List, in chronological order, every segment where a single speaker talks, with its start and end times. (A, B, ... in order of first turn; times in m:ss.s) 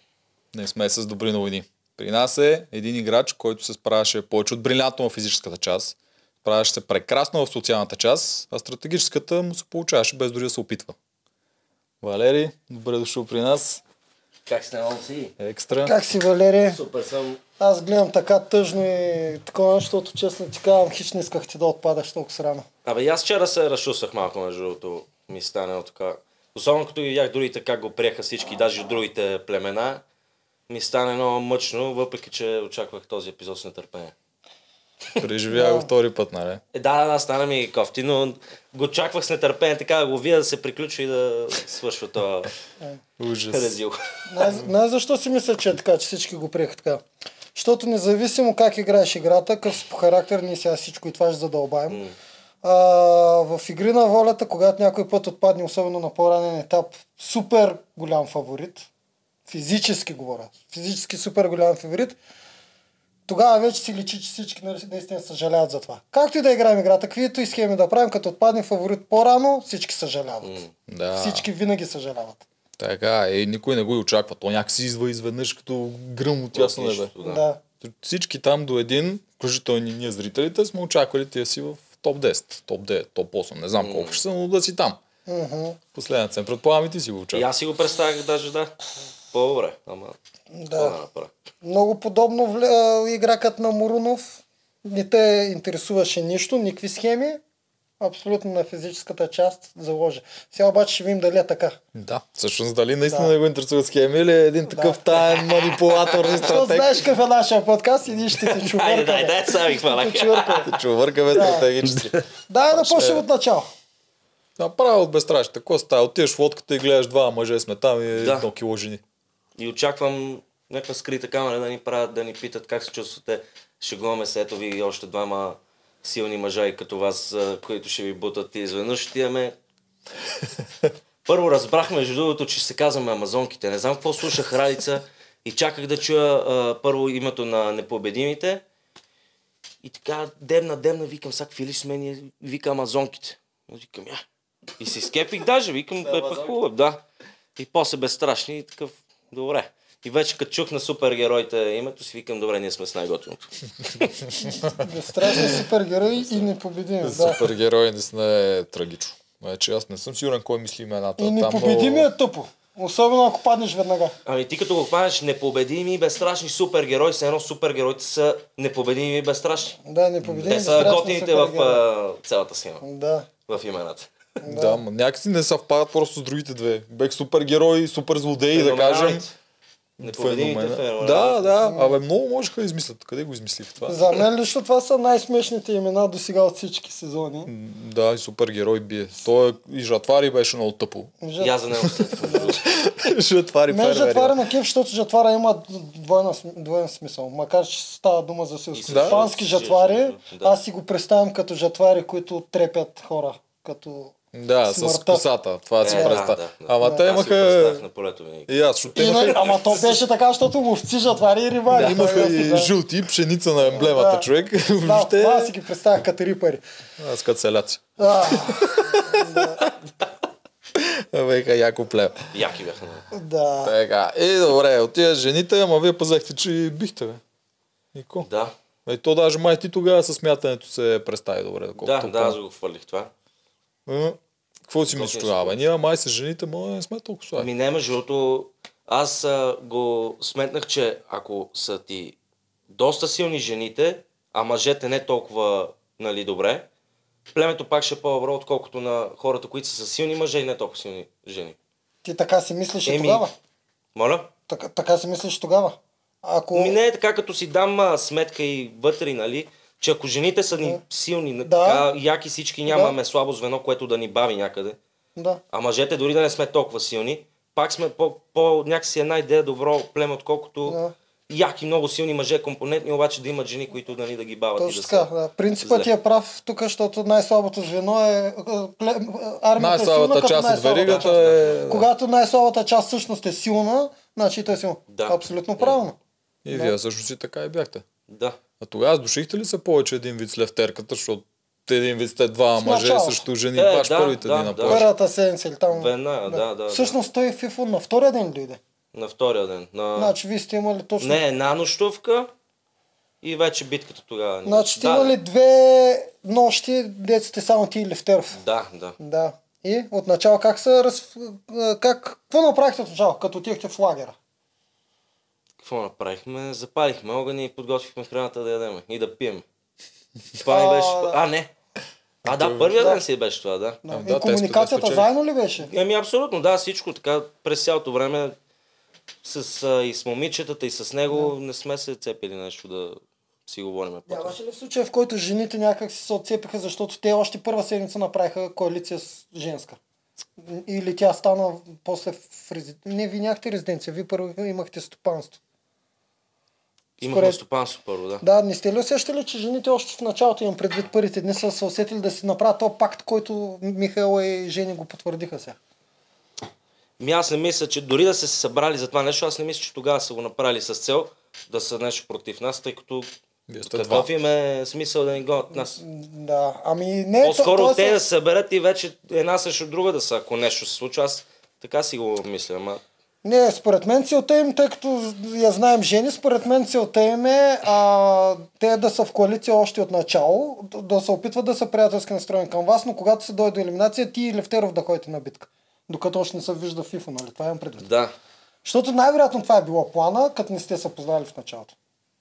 0:00.5-0:10.9 A
0:12.0-0:13.8 A
0:14.5-0:15.3 B
0:15.4-0:15.9 A
0:15.8-0:16.8 C
0:16.6-0:17.4 B
0:17.6-0:22.6 C
0:22.8-0:30.0 B
0:30.7-0:34.1 B
0:35.2-0:36.6 A
0:35.5-0:35.9 C
0:36.7-0:42.5 B
0:43.2-0:43.7 A
0:43.5-0:44.4 B
0:44.3-0:47.0 C
0:47.5-0:52.0 C
0:51.9-0:52.1 B
0:52.6-0:58.9 C
0:59.5-1:02.2 C
1:03.3-1:10.6 C
1:10.4-1:10.7 B
1:10.9-1:11.5 A
1:11.1-1:12.4 C
1:12.8-1:17.1 A
1:16.5-1:17.4 B
1:17.2-1:17.6 C
1:17.8-1:25.0 A
1:23.8-1:24.2 B
1:25.2-1:25.8 C
1:25.9-1:27.4 A
1:27.3-1:28.8 B
1:29.3-1:30.2 B
1:30.5-1:31.0 C
1:30.7-1:31.3 B
1:31.6-1:37.4 C
1:38.0-1:41.8 C
1:41.9-1:47.1 A
1:44.7-1:45.0 C
1:45.1-1:46.4 B
1:46.4-1:50.7 C
1:48.3-1:50.7 B
1:50.6-1:52.1 A
1:51.3-1:51.7 C
1:51.8-1:52.2 B
1:52.5-1:53.7 C
1:52.7-1:53.2 A
1:54.6-1:59.0 A
1:58.1-1:58.5 B
1:59.6-2:09.5 B
2:11.2-2:18.6 B
2:19.8-2:24.2 B
2:24.8-2:27.0 B
2:26.0-2:26.5 A
2:27.6-2:34.2 B
2:34.3-2:34.7 A
2:34.5-2:37.4 C
2:35.3-2:35.6 A
2:35.4-2:36.5 B
2:37.0-2:42.1 A
2:41.2-2:44.2 C
2:44.2-2:49.8 B
2:49.8-2:51.8 C
2:50.2-2:50.7 A
2:50.4-2:52.8 B
2:52.8-2:53.3 C
2:53.5-2:54.1 B
2:54.4-2:54.8 C
2:54.4-2:59.2 A
2:58.5-2:59.3 B
3:00.0-3:04.2 A
3:00.0-3:01.5 B
3:01.6-3:02.0 C
3:03.8-3:07.5 C
3:07.5-3:11.1 A
3:11.2-3:11.5 C
3:11.4-3:12.6 B
3:12.0-3:12.6 C
3:12.4-3:14.4 A
3:13.7-3:24.1 C
3:18.7-3:20.6 B
3:18.9-3:19.2 A
3:24.3-3:27.8 A
3:24.7-3:25.2 C
3:25.8-3:28.5 B
3:25.8-3:26.2 C
3:26.8-3:27.1 C
3:28.5-3:30.0 A
3:28.9-3:32.7 C
3:31.7-3:32.3 B
3:31.7-3:35.5 A
3:33.6-3:34.3 C
3:34.8-3:36.6 C
3:37.0-3:39.8 A
3:38.0-3:39.7 C
3:40.8-3:42.2 A
3:42.3-3:43.0 B
3:43.1-3:43.7 C
3:43.6-3:47.2 A
3:47.9-3:48.3 A
3:48.2-3:48.5 B
3:48.8-3:52.4 A
3:51.8-3:53.1 B
3:53.9-3:57.5 A
3:54.9-3:55.6 B
3:57.4-4:02.2 B
4:02.7-4:06.6 B
4:07.3-4:11.6 B
4:12.0-4:13.3 C
4:12.8-4:13.2 B
4:13.9-4:14.3 B
4:14.5-4:16.8 C
4:16.5-4:24.8 B
4:21.4-4:21.9 C
4:22.7-4:23.0 C
4:25.2-4:25.4 C
4:25.5-4:35.1 B
4:30.6-4:30.9 C
4:34.6-4:46.0 C
4:35.6-4:35.9 B
4:39.6-4:41.9 A
4:40.8-4:41.6 B
4:44.9-4:45.8 B
4:46.4-4:47.8 A
4:48.1-4:48.4 B
4:48.6-4:54.9 A
4:52.6-4:53.2 C
4:53.6-4:54.8 B
4:54.6-4:58.6 C
4:55.7-4:57.0 B
4:58.9-5:00.2 B
4:59.9-5:01.2 C
5:01.0-5:02.3 B
5:03.2-5:05.1 B
5:04.4-5:08.4 C
5:08.3-5:09.0 B
5:09.0-5:14.2 C
5:15.6-5:19.4 B
5:20.4-5:21.5 B
5:20.5-5:21.2 C
5:22.2-5:22.7 A
5:22.2-5:23.8 B
5:22.8-5:23.0 C
5:23.8-5:25.7 C
5:23.9-5:25.1 A
5:25.6-5:28.3 B
5:29.2-5:34.4 B
5:34.1-5:39.8 C
5:40.4-5:45.4 C
5:47.0-5:48.2 B
5:47.0-5:47.4 C
5:48.2-5:55.6 C
5:57.0-6:03.1 B
6:03.5-6:04.1 A
6:03.6-6:05.8 B
6:05.6-6:08.0 C
6:07.2-6:12.8 B
6:13.2-6:27.9 C
6:27.8-6:28.1 B
6:28.6-6:31.7 C